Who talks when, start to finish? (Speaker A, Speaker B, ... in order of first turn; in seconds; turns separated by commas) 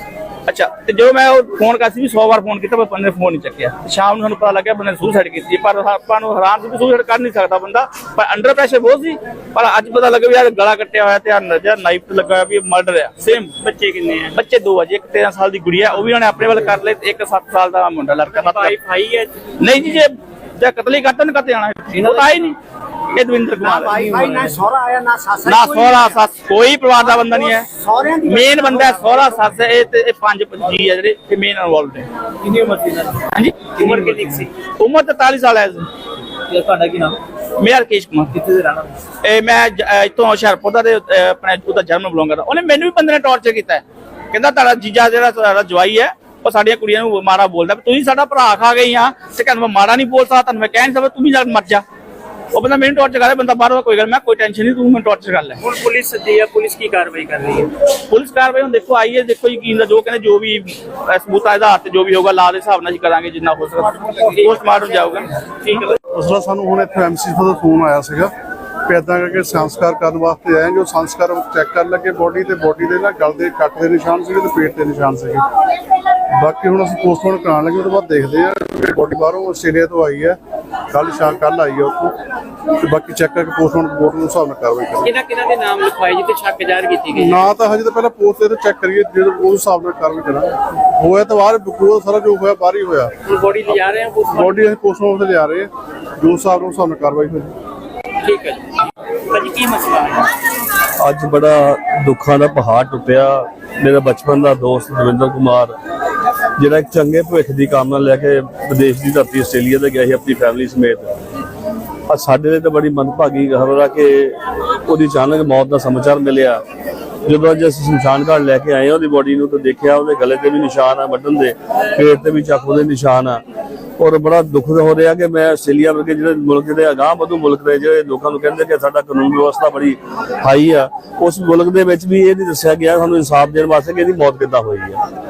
Speaker A: 0.5-13.5, Speaker B: 13.6-14.4, Speaker A: 14.3-18.7, Speaker B: 18.3-19.3, Speaker A: 19.6-22.6, Speaker B: 21.9-22.4, Speaker A: 23.1-24.2, Speaker C: 23.6-26.2, Speaker B: 24.0-24.5, Speaker A: 25.4-27.7, Speaker C: 27.1-29.3, Speaker A: 28.2-32.1, Speaker B: 32.5-33.1, Speaker A: 33.3-34.2, Speaker B: 33.7-34.5, Speaker A: 34.8-35.9, Speaker A: 36.5-51.8, Speaker A: 52.5-55.6, Speaker B: 55.6-57.7, Speaker A: 58.1-65.3, Speaker B: 64.3-64.6, Speaker B: 65.6-65.9, Speaker D: 66.1-68.3, Speaker D: 68.8-75.4, Speaker D: 76.4-80.4, Speaker D: 80.9-82.1, Speaker D: 82.8-85.1, Speaker B: 85.0-87.5, Speaker D: 87.1-93.1, Speaker B: 93.3-94.6, Speaker D: 94.3-97.5, Speaker B: 98.2-98.7, Speaker B: 99.3-100.3, Speaker E: 101.0-105.7, Speaker E: 106.6-111.1, Speaker E: 112.1-116.6, Speaker E: 117.2-123.4, Speaker E: 124.0-135.0